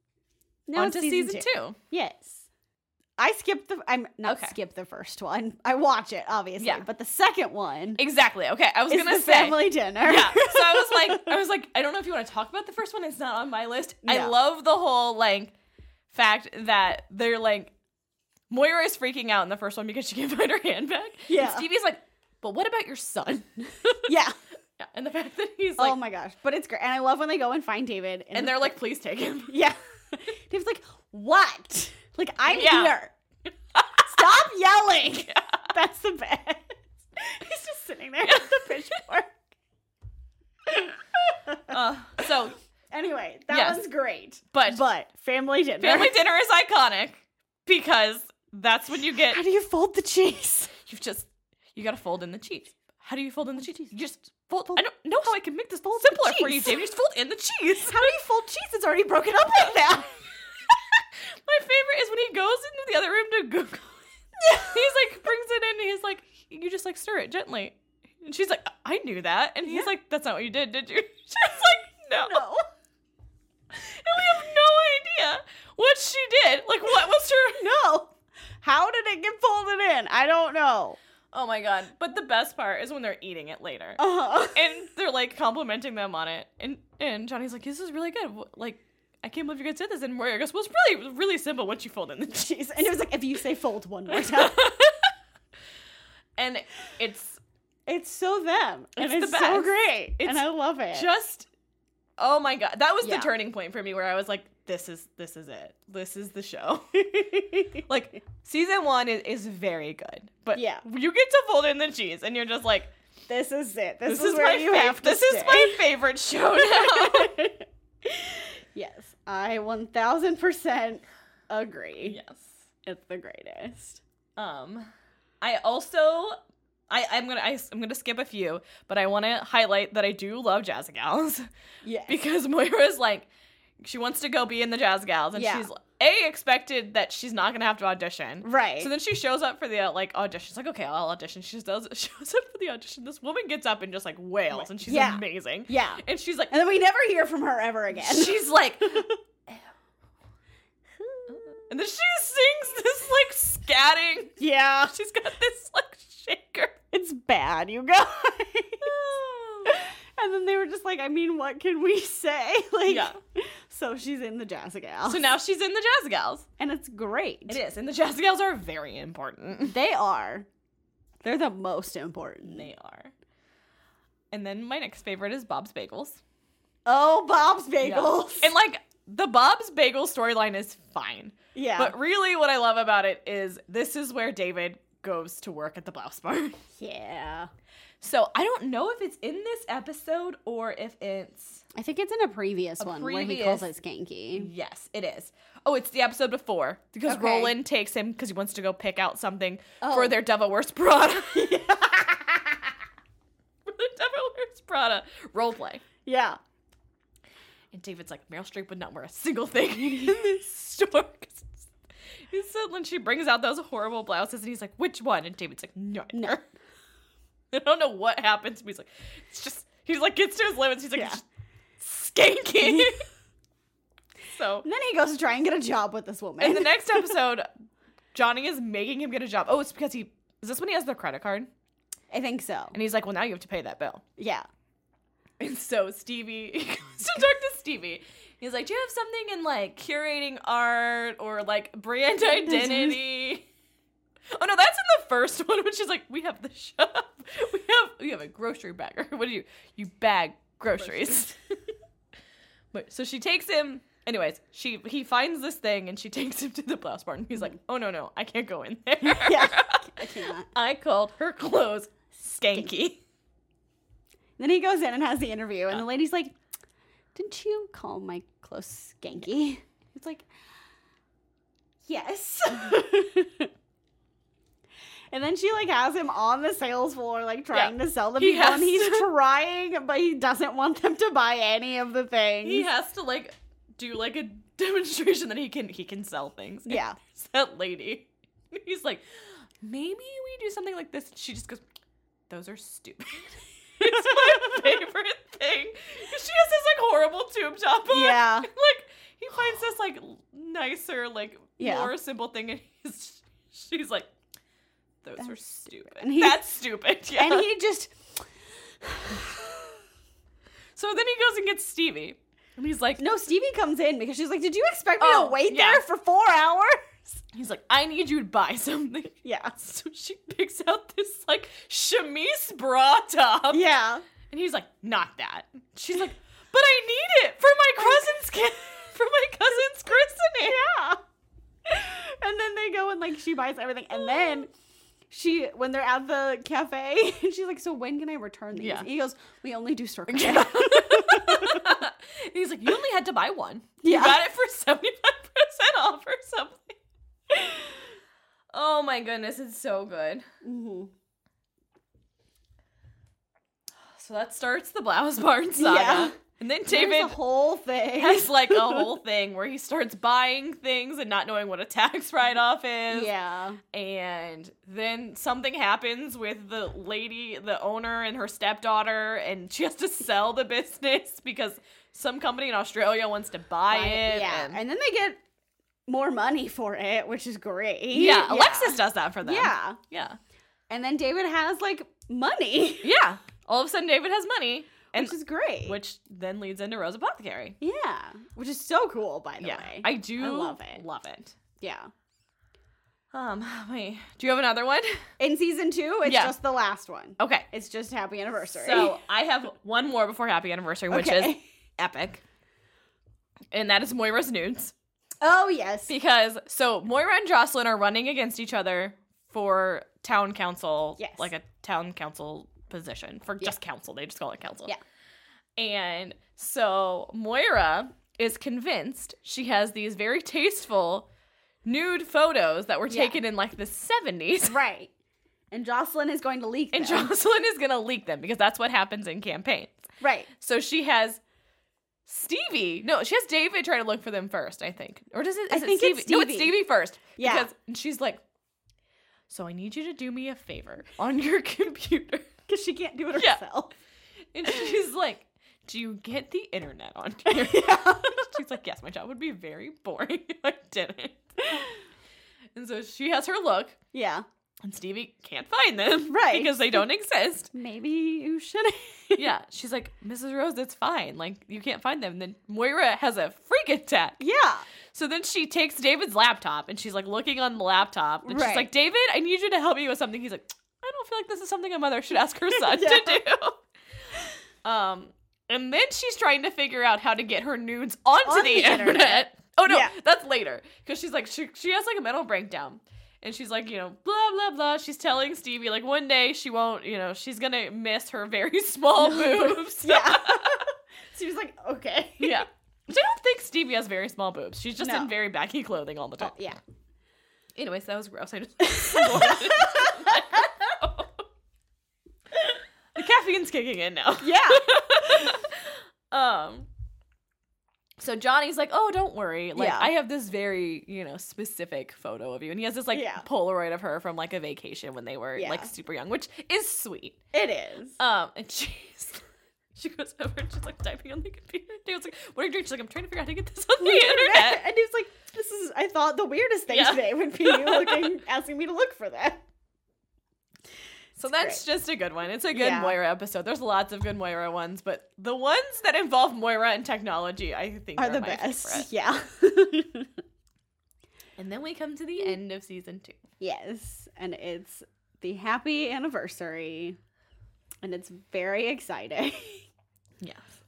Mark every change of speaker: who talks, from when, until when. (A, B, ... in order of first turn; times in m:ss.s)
0:00.7-0:02.4 A
0:00.7-0:01.8 B
0:03.2-0:08.0 A
0:04.2-0:04.6 B
0:06.6-0:06.8 B
0:08.0-0:15.5 B
0:08.9-0:11.3 A
0:14.0-0:14.3 A
0:16.1-0:17.7 B
0:18.5-0:24.1 B
0:21.3-0:21.6 A
0:24.0-0:24.4 A
0:24.8-0:26.0 B
0:25.8-0:28.8 A
0:28.3-0:29.6 B
0:29.5-0:33.1 A
0:32.5-0:33.0 B
0:33.7-0:34.4 B
0:34.0-0:39.3 A
0:35.3-0:35.6 B
0:38.2-0:38.8 B
0:40.7-0:41.7 A
0:41.7-0:42.6 B
0:42.9-0:46.2 A
0:43.5-0:43.8 B
0:44.5-0:44.8 B
0:45.8-0:49.4 B
0:49.3-0:50.7 A
0:50.8-0:58.1 B
0:55.9-0:56.8 A
0:57.8-1:00.2 A
1:00.7-1:03.9 B
1:04.4-1:04.8 A
1:04.5-1:12.4 B
1:12.1-1:12.6 A
1:13.7-1:17.7 B
1:17.6-1:21.0 A
1:21.3-1:32.9 B
1:24.0-1:24.8 A
1:32.3-1:34.7 A
1:34.1-1:35.1 B
1:36.4-1:37.4 B
1:37.9-1:41.1 A
1:39.0-1:41.5 B
1:42.2-1:47.2 B
1:43.0-1:43.3 A
1:47.1-1:47.8 A
1:47.9-1:52.9 B
1:50.5-1:50.8 A
1:53.3-1:55.8 A
1:54.0-1:57.3 B
1:56.6-2:02.2 A
2:02.0-2:02.5 B
2:02.8-2:04.0 A
2:04.4-2:04.9 B
2:05.4-2:06.4 B
2:06.9-2:11.5 B
2:11.8-2:12.2 A
2:12.1-2:13.3 B
2:13.8-2:26.5 B
2:15.3-2:15.7 A
2:18.4-2:18.9 A
2:24.5-2:29.2 A
2:27.9-2:29.1 B
2:31.0-2:31.6 A
2:31.3-2:34.4 B
2:34.4-2:34.9 A
2:34.9-2:36.7 B
2:36.9-2:38.9 A
2:38.8-2:39.7 B
2:39.6-2:45.2 A
2:42.9-2:43.2 B
2:45.0-2:46.4 B
2:46.6-2:47.6 A
2:47.5-2:49.8 B
2:49.6-2:50.5 A
2:51.2-2:52.7 A
2:52.4-2:53.1 B
2:54.3-2:56.2 B
2:56.8-2:58.5 A
2:57.8-3:06.6 B
3:01.5-3:01.9 A
3:06.8-3:07.5 A
3:08.0-3:11.6 B
3:11.7-3:14.5 A
3:12.8-3:13.7 B
3:14.3-3:21.5 B
3:17.0-3:17.5 A
3:19.8-3:20.2 A
3:21.3-3:22.6 A
3:23.6-3:25.8 B
3:26.0-3:26.4 A
3:27.7-3:31.7 B
3:32.3-3:36.4 B
3:36.1-3:36.4 A
3:37.5-3:41.2 B
3:40.9-3:41.2 A
3:41.8-3:43.0 B
3:42.6-3:42.9 A
3:44.3-3:44.6 B
3:44.6-3:47.1 A
3:46.4-3:47.5 B
3:48.1-3:51.5 B
3:52.1-3:52.7 A
3:52.7-3:54.0 B
3:54.2-3:54.4 A
3:55.4-4:03.4 B
4:02.3-4:03.0 A
4:04.3-4:11.3 B
4:12.7-4:23.0 B
4:19.0-4:20.5 A
4:24.4-4:26.3 A
4:27.1-4:30.2 A
4:31.9-4:33.5 A
4:35.1-4:42.7 A
4:37.5-4:39.1 B
4:42.4-4:49.0 B
4:46.6-4:47.0 A
4:49.6-4:51.6 B
4:52.3-5:04.1 B
4:57.9-4:58.5 A
5:01.6-5:01.9 A
5:05.0-5:07.5 B
5:05.2-5:06.4 A
5:07.1-5:08.2 A
5:08.8-5:09.8 A
5:10.7-5:13.0 B
5:13.0-5:17.2 A
5:15.0-5:15.8 B
5:17.3-5:23.6 B
5:19.2-5:19.6 A
5:23.5-5:24.0 A
5:24.3-5:30.6 B
5:30.4-5:31.0 A
5:31.6-5:34.5 A
5:35.1-5:41.7 A
5:38.6-5:38.9 B
5:40.1-5:46.8 B
5:43.8-5:44.2 A
5:48.5-5:50.2 B
5:50.4-5:50.9 A
5:53.9-5:57.2 B
5:55.6-5:56.1 A
5:56.6-5:58.9 A
5:58.0-6:03.1 B
6:02.9-6:03.6 A
6:03.7-6:14.6 B
6:13.7-6:15.2 A
6:15.9-6:19.8 A
6:17.9-6:20.2 B
6:20.7-6:22.9 A
6:22.8-6:27.6 B
6:24.9-6:25.8 A
6:27.6-6:30.8 A
6:29.4-6:31.3 B
6:31.6-6:31.9 A
6:33.1-6:35.0 B
6:35.2-6:39.0 A
6:36.0-6:36.3 B
6:37.2-6:37.5 B
6:38.5-6:42.2 B
6:40.9-6:41.4 A
6:43.5-6:44.7 B
6:45.2-6:45.9 A
6:45.9-6:54.7 B
6:51.0-6:51.3 A
6:55.6-7:01.1 B
7:01.6-7:04.6 B
7:02.9-7:03.2 A
7:04.5-7:04.9 A
7:05.5-7:07.1 A
7:06.7-7:11.2 B
7:10.0-7:10.3 A
7:12.0-7:18.2 B
7:15.5-7:16.6 A
7:17.2-7:17.5 A
7:19.3-7:22.3 B
7:22.5-7:23.7 A
7:23.1-7:23.4 B
7:24.3-7:31.6 B
7:27.3-7:28.4 A
7:32.5-7:33.8 B
7:33.9-7:34.2 A
7:34.6-7:37.5 B
7:36.1-7:36.8 A
7:37.5-7:39.2 A
7:39.2-7:44.2 B
7:44.2-7:44.6 A
7:44.9-7:53.6 B
7:48.2-7:48.7 A
7:52.5-7:53.2 A
7:54.6-8:10.6 B
7:58.2-7:59.9 A
8:09.0-8:12.4 A
8:12.2-8:16.3 B
8:14.8-8:15.1 A
8:16.2-8:16.6 A
8:17.6-8:21.2 B
8:19.0-8:20.1 A
8:22.9-8:26.7 B
8:24.2-8:24.7 A
8:28.0-8:37.2 B
8:29.6-8:29.9 A
8:32.9-8:33.2 A
8:35.4-8:35.7 A
8:37.3-8:38.0 A
8:38.0-8:39.2 B
8:39.7-8:44.6 B
8:43.8-8:49.4 A
8:46.7-8:48.2 B
8:51.2-8:58.9 B
8:51.3-8:51.6 A
8:52.5-8:53.0 A
8:58.0-9:00.1 A
9:01.4-9:03.2 B
9:03.4-9:07.0 A
9:07.8-9:09.6 A